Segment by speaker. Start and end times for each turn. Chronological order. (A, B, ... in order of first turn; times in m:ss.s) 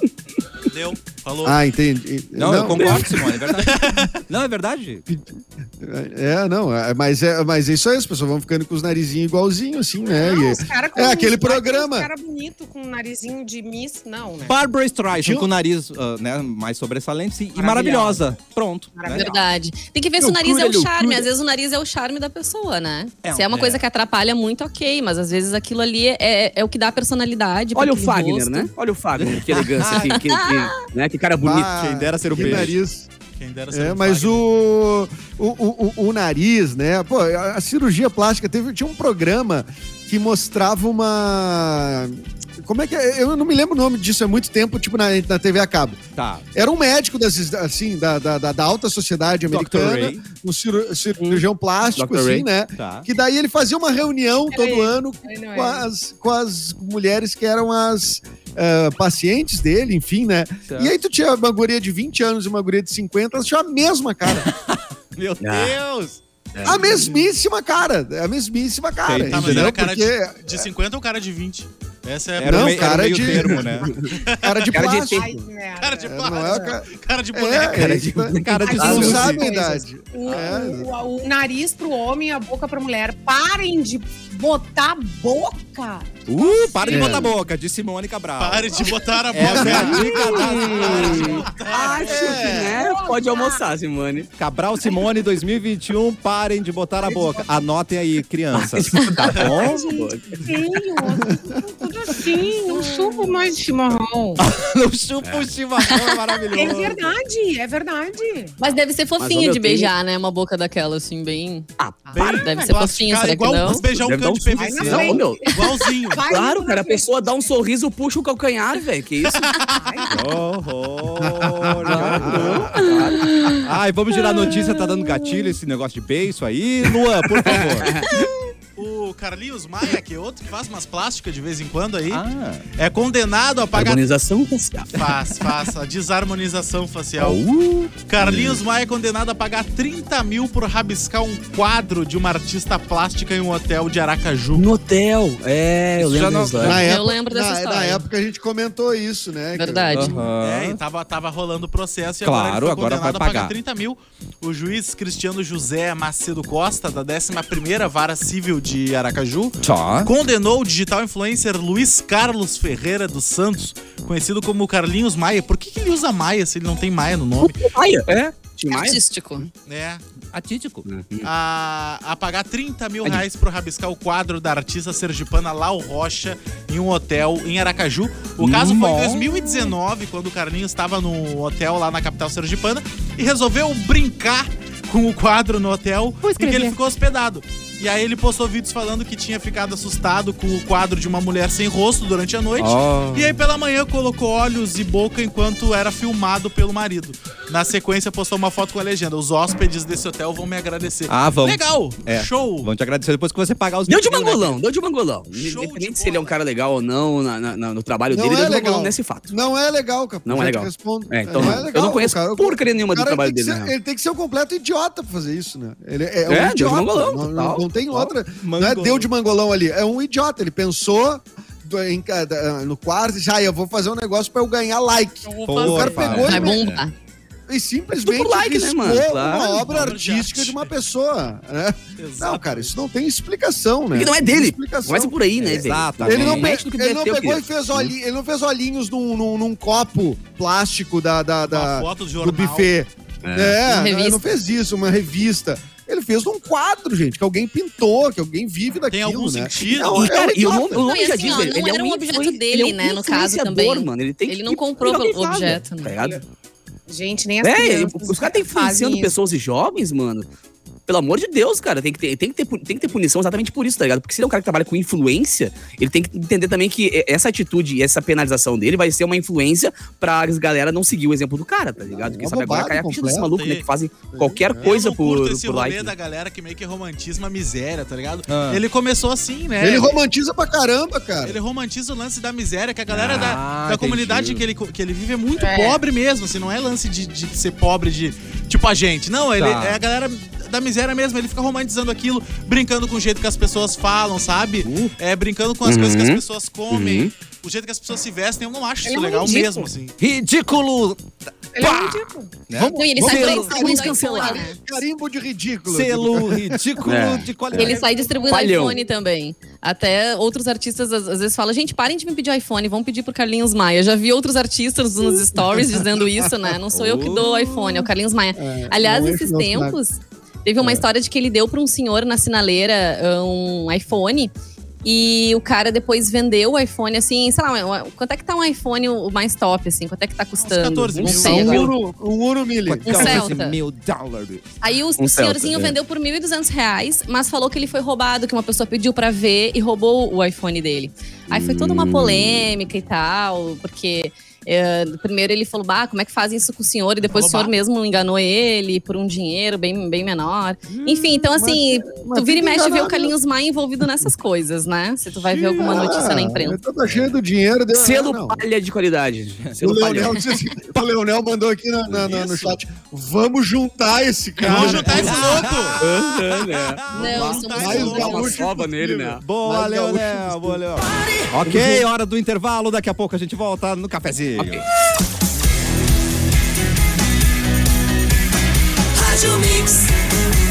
0:00.7-0:01.6 A
0:01.4-0:03.2 B
0:02.4-0:05.0 C
0:02.7-0:03.3 D
0:03.6-0:04.2 A
0:05.1-0:12.1 B
0:10.1-0:14.6 E
0:14.4-0:19.3 C
0:15.1-0:15.5 B
0:17.5-0:18.4 E
0:18.9-0:19.4 E
0:19.1-0:28.7 F
0:20.2-0:21.2 D
0:23.2-0:23.8 C
0:27.7-0:31.7 D
0:29.2-0:30.2 C
0:30.2-0:30.8 F
0:31.4-0:33.1 B
0:31.7-0:32.8 C
0:32.3-0:32.7 D
0:33.4-0:34.4 A
0:33.7-0:46.0 B
0:46.2-0:46.4 C
0:46.5-1:04.5 B
0:49.5-0:50.2 C
0:52.0-0:52.4 D
0:52.8-0:53.0 C
0:54.5-0:55.8 E
1:00.7-1:00.9 C
1:04.4-1:06.8 C
1:05.4-1:05.8 D
1:06.5-1:07.0 D
1:06.6-1:10.7 B
1:09.0-1:09.8 C
1:09.2-1:13.4 A
1:12.4-1:13.9 C
1:12.4-1:15.4 B
1:14.1-1:14.7 A
1:14.7-1:15.3 D
1:15.1-1:16.7 E
1:15.8-1:18.0 A
1:16.0-1:20.9 B
1:17.8-1:19.3 D
1:17.9-1:19.4 C
1:18.6-1:27.3 E
1:26.3-1:31.3 C
1:26.9-1:27.3 B
1:28.4-1:32.7 A
1:29.5-1:30.0 B
1:29.6-1:34.3 D
1:30.0-1:33.6 E
1:32.1-1:32.8 B
1:34.4-1:39.8 C
1:34.8-1:35.1 E
1:37.0-1:37.5 E
1:38.5-1:40.6 D
1:39.4-1:44.4 E
1:41.3-1:41.6 B
1:44.4-1:47.2 C
1:45.2-1:45.5 D
1:45.8-1:46.5 F
1:46.5-1:48.5 E
1:48.6-1:51.7 F
1:49.2-1:49.9 D
1:51.8-1:52.0 D
1:52.0-1:52.7 E
1:52.1-1:56.3 A
1:52.4-1:53.8 F
1:53.9-1:55.6 D
1:54.6-1:57.5 E
1:56.2-1:59.5 D
1:59.3-1:59.8 A
1:59.7-2:00.4 E
2:00.1-2:08.2 C
2:01.2-2:02.7 B
2:01.8-2:03.3 D
2:02.7-2:05.5 F
2:07.3-2:08.2 D
2:08.8-2:12.2 A
2:12.1-2:12.6 C
2:12.8-2:14.0 A
2:13.7-2:14.9 D
2:14.9-2:17.4 A
2:17.2-2:17.9 C
2:18.1-2:24.7 A
2:18.2-2:18.6 D
2:24.5-2:26.8 D
2:26.0-2:26.8 C
2:26.6-2:30.2 B
2:26.7-2:28.0 F
2:29.5-2:30.2 F
2:29.9-2:30.8 C
2:30.4-2:47.7 A
2:32.2-2:33.5 C
2:39.6-2:40.1 C
2:47.4-2:49.5 D
2:48.7-2:49.5 F
2:49.7-2:50.0 A
2:50.3-2:50.9 C
2:50.9-2:51.3 D
2:51.2-3:22.7 A
2:58.4-2:59.7 C
3:06.2-3:06.7 C
3:12.6-3:13.4 C
3:21.1-3:24.6 C
3:23.9-3:29.3 D
3:25.3-3:26.3 A
3:28.1-3:46.7 B
3:30.2-3:33.7 D
3:31.4-3:31.6 C
3:36.3-3:37.6 D
3:37.9-3:39.1 C
3:45.2-3:46.3 A
3:45.5-3:46.8 C
3:46.1-3:46.9 F
3:47.5-3:55.2 B
3:48.0-3:49.6 D
3:49.4-3:50.7 A
3:52.0-3:52.8 A
3:53.9-3:57.9 D
3:55.4-3:56.5 C
3:56.0-4:10.8 B
4:01.5-4:02.7 A
4:03.2-4:03.6 D
4:03.6-4:04.2 F
4:08.9-4:10.2 A
4:09.8-4:16.2 D
4:10.8-4:16.0 F
4:16.9-4:19.1 E
4:17.4-4:20.3 D
4:20.9-4:35.9 D
4:31.8-4:33.3 B
4:33.3-4:33.6 A
4:34.1-4:34.7 B
4:34.6-4:39.9 A
4:38.3-4:38.6 C
4:39.6-4:41.4 B
4:41.2-5:00.0 A
4:42.9-4:44.4 C
4:45.4-4:45.8 E
4:49.4-4:49.8 C
4:54.6-4:54.9 C
4:55.6-4:57.1 D
4:58.8-4:59.5 E
5:00.0-5:04.2 C
5:01.5-5:02.3 E
5:02.5-5:06.8 B
5:02.6-5:04.6 F
5:05.7-5:07.9 C
5:06.8-5:08.8 D
5:07.5-5:24.3 F
5:07.8-5:08.8 E
5:15.5-5:15.8 B
5:16.7-5:17.4 C
5:18.3-5:19.8 B
5:24.8-5:31.7 F
5:30.4-5:31.5 A
5:30.9-5:31.7 D
5:31.0-5:33.3 B
5:32.6-5:34.5 C
5:32.8-5:33.6 F
5:34.6-5:56.6 F
5:35.0-5:35.8 D
5:41.3-5:42.5 D
5:47.1-5:47.5 A
5:51.3-5:53.2 B
5:55.2-5:56.0 C
5:55.6-5:58.4 B
5:57.7-6:00.2 D
5:59.6-6:05.4 B
6:04.4-6:05.8 A
6:04.4-6:07.3 C
6:05.8-6:09.2 D
6:06.9-6:08.3 F
6:07.1-6:08.4 A
6:07.4-6:10.7 B
6:09.2-6:14.6 C
6:11.4-6:11.8 D
6:14.4-6:14.7 D
6:19.3-6:19.8 C